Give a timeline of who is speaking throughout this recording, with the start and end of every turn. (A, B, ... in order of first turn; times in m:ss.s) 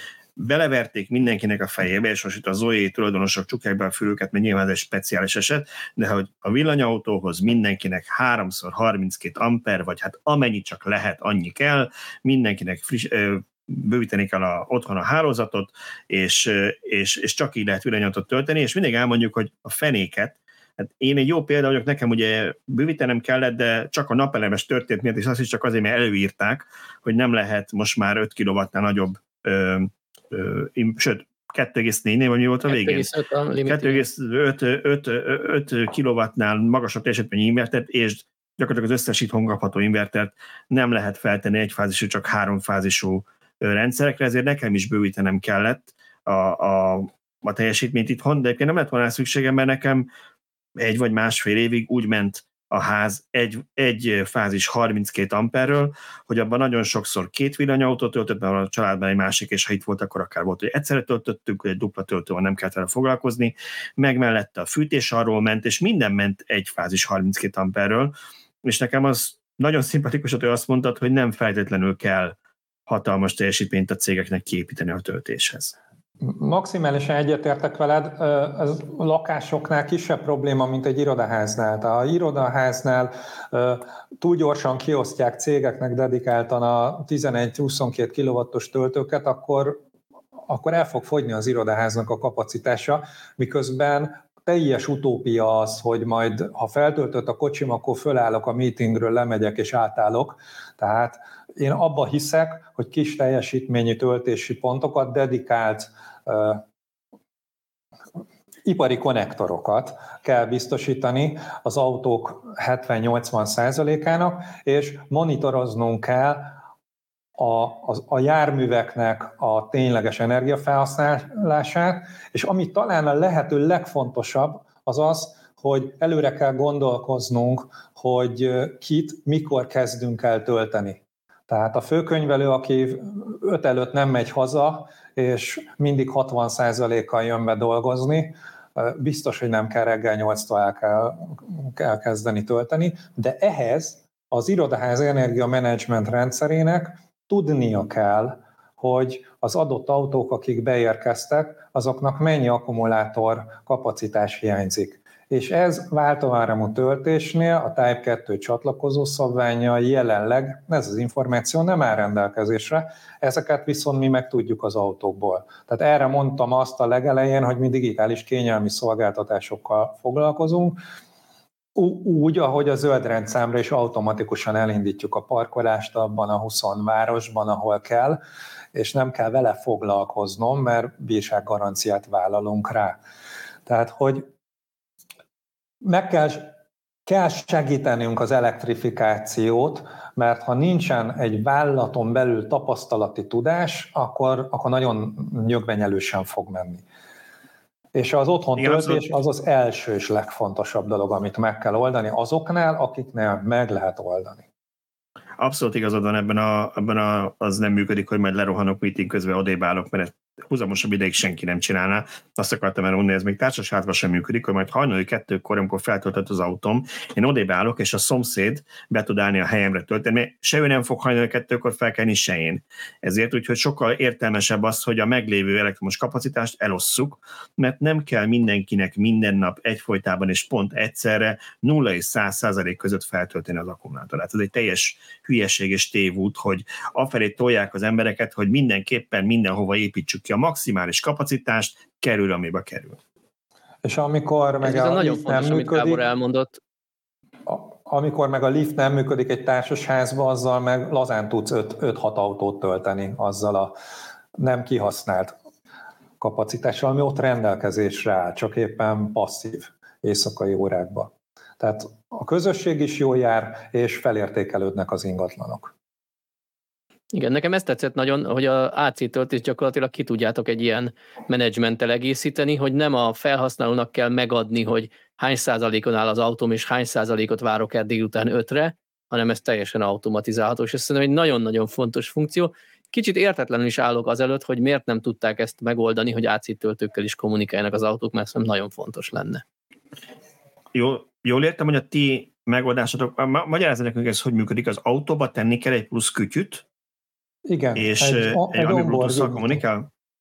0:00.4-0:33.1 A
0:32.7-0:34.0 B
0:33.6-0:50.1 A
0:50.8-1:08.1 A
1:08.6-1:12.4 A
1:12.9-1:15.8 A
1:16.2-1:29.8 C
1:30.5-1:46.6 C
1:48.6-1:56.6 C
1:57.4-2:50.8 C
2:51.8-2:58.2 C
2:58.7-3:03.0 C
3:03.7-3:04.3 C
3:05.8-3:06.5 C
3:07.1-3:16.8 C
3:17.9-3:24.4 C
3:18.6-3:19.1 A
3:25.4-4:03.0 A
4:03.8-4:06.0 C
4:04.6-4:06.6 B
4:07.5-4:13.7 C
4:14.4-4:15.4 C
4:16.2-4:25.7 C
4:27.1-4:49.4 B
4:50.7-4:56.6 A
4:57.4-4:59.6 C
4:57.8-4:59.9 A